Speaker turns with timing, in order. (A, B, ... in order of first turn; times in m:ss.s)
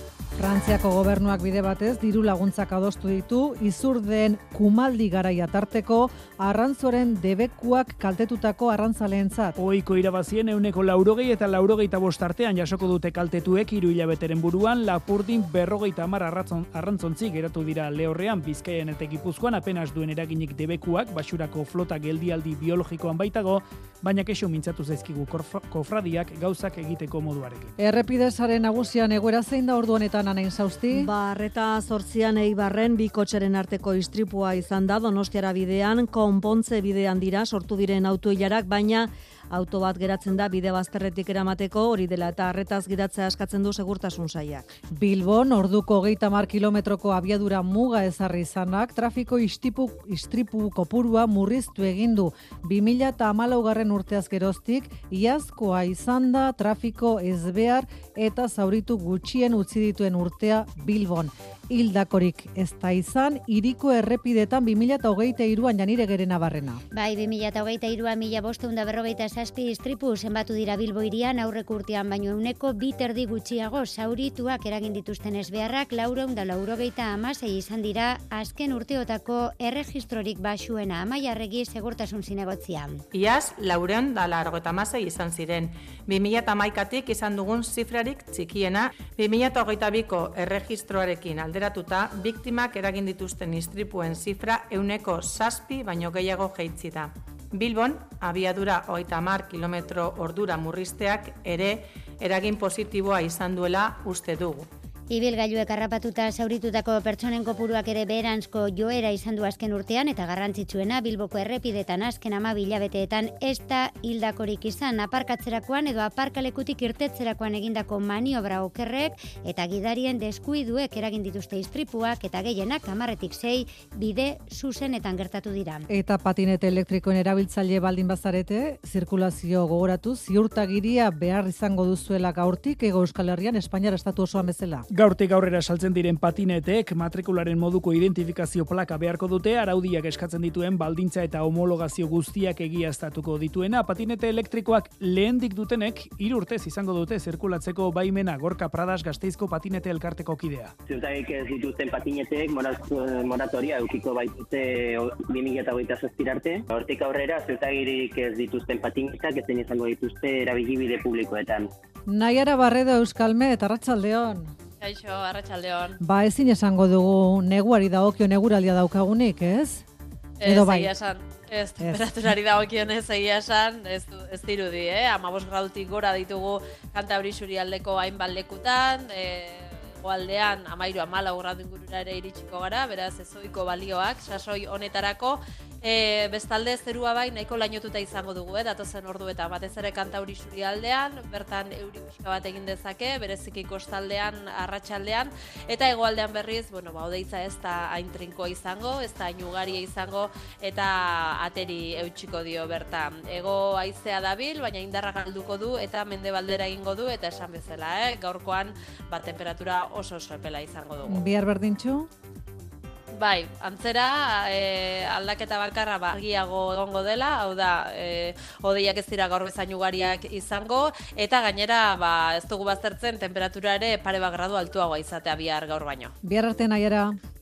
0:00.4-0:09.6 A
0:09.6-0:27.8 B
0:27.8-0:31.1 A
0:30.9-0:44.7 C
0:44.9-1:06.8 A
1:06.9-1:23.0 D
1:23.1-1:44.7 E
1:45.1-2:05.9 D
2:05.9-2:14.9 A
2:14.9-2:30.7 B
2:30.9-2:41.7 F
2:42.1-2:44.5 A
2:44.8-2:46.0 G
2:46.0-2:49.8 A
2:50.4-3:31.2 G
2:50.4-2:50.9 A
3:31.0-3:32.1 A
3:33.2-3:46.1 G
3:46.2-3:47.2 A